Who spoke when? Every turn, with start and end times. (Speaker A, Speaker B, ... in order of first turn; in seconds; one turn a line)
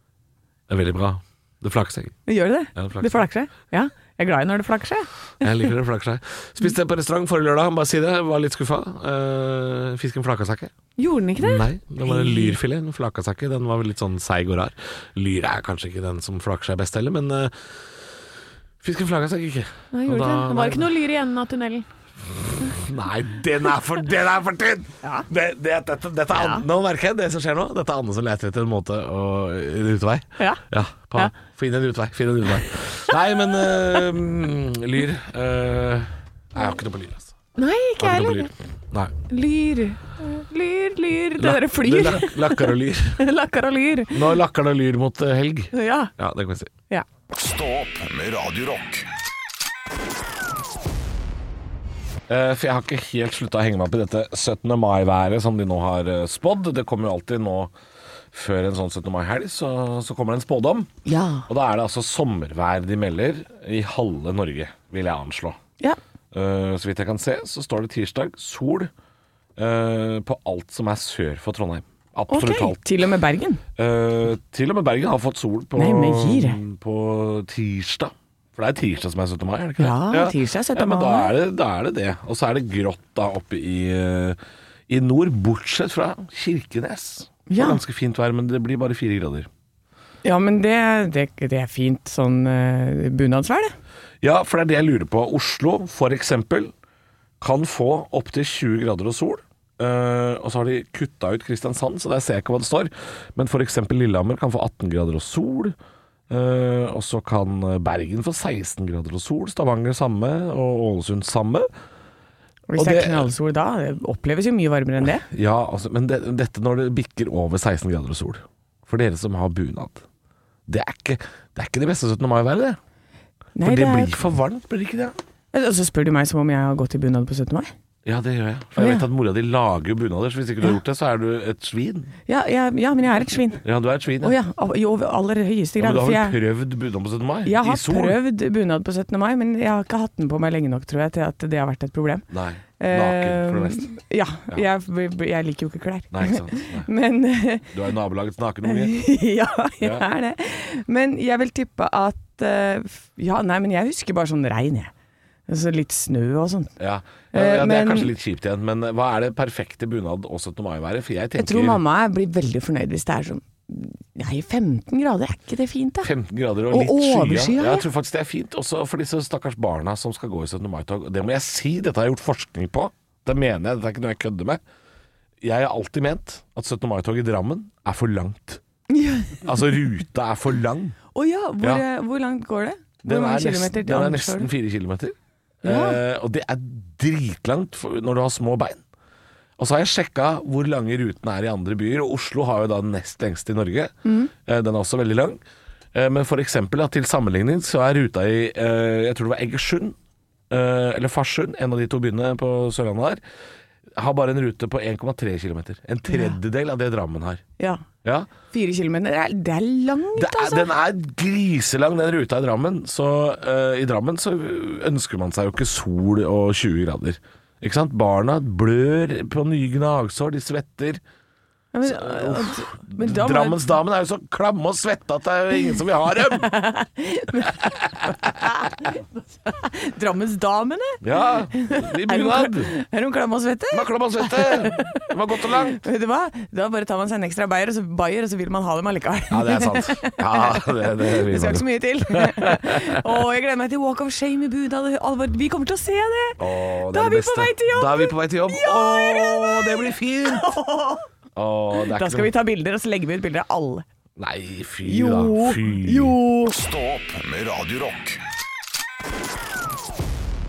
Speaker A: 0.7-2.2
Speaker B: 2.2-5.7
Speaker A: 2.7-3.2
Speaker A: 5.4-10.7
Speaker B: 11.0-12.6
Speaker A: 11.4-18.0
Speaker A: 18.8-20.9
Speaker B: 19.9-21.9
Speaker A: 22.3-37.3
Speaker B: 26.3-26.6
Speaker B: 37.5-38.5
Speaker A: 38.0-39.1
Speaker B: 39.3-44.4
Speaker A: 41.4-43.2
Speaker A: 44.1-46.7
Speaker B: 45.7-46.1
Speaker C: 47.3-49.1
Speaker A: 52.3-57.7
Speaker A: 58.3-60.9
Speaker B: 61.0-61.5
Speaker A: 61.5-65.6
Speaker A: 66.3-68.9
Speaker A: 69.6-72.8
Speaker B: 72.3-73.6
Speaker A: 73.8-84.4
Speaker B: 75.8-76.6
Speaker B: 79.8-81.3
Speaker A: 84.9-89.5
Speaker B: 87.5-87.8
Speaker B: 90.2-93.7
Speaker A: 94.2-96.7
Speaker A: 97.4-105.7
Speaker A: 106.3-111.7
Speaker B: 112.7-115.3
Speaker A: 112.8-113.3
Speaker A: 115.3-120.0
Speaker A: 120.7-122.8
Speaker B: 123.5-124.2
Speaker A: 123.6-125.2
Speaker B: 125.5-127.7
Speaker A: 128.0-132.1
Speaker B: 128.8-129.0
Speaker B: 132.3-133.6
Speaker A: 133.6-134.3
Speaker B: 134.2-136.4
Speaker A: 135.8-138.2
Speaker B: 137.4-142.2
Speaker A: 142.3-143.8
Speaker B: 142.8-147.7
Speaker A: 146.1-146.9
Speaker A: 147.7-149.0
Speaker B: 148.6-154.9
Speaker B: 155.5-156.8
Speaker A: 156.8-161.8
Speaker B: 157.3-158.1
Speaker B: 161.4-166.1
Speaker A: 166.0-174.6
Speaker B: 166.7-167.9
Speaker A: 175.4-178.6
Speaker B: 178.9-179.5
Speaker A: 179.4-181.0
Speaker B: 181.1-184.5
Speaker A: 183.0-188.8
Speaker B: 185.6-186.0
Speaker A: 189.6-195.4
Speaker B: 194.0-194.3
Speaker A: 195.9-199.9
Speaker A: 200.5-203.2
Speaker A: 203.9-207.4
Speaker B: 206.1-206.3
Speaker B: 207.6-207.8
Speaker A: 208.0-208.3
Speaker B: 208.5-210.7
Speaker A: 210.2-221.0
Speaker B: 221.7-223.6
Speaker A: 221.8-226.5
Speaker B: 226.2-251.1
Speaker A: 227.4-228.3
Speaker A: 231.0-232.7
Speaker A: 233.7-235.8
Speaker A: 239.3-243.0
Speaker A: 246.4-250.5
Speaker A: 251.3-252.3
Speaker B: 251.7-253.8
Speaker A: 254.2-256.2
Speaker B: 254.8-256.5
Speaker C: 256.5-258.2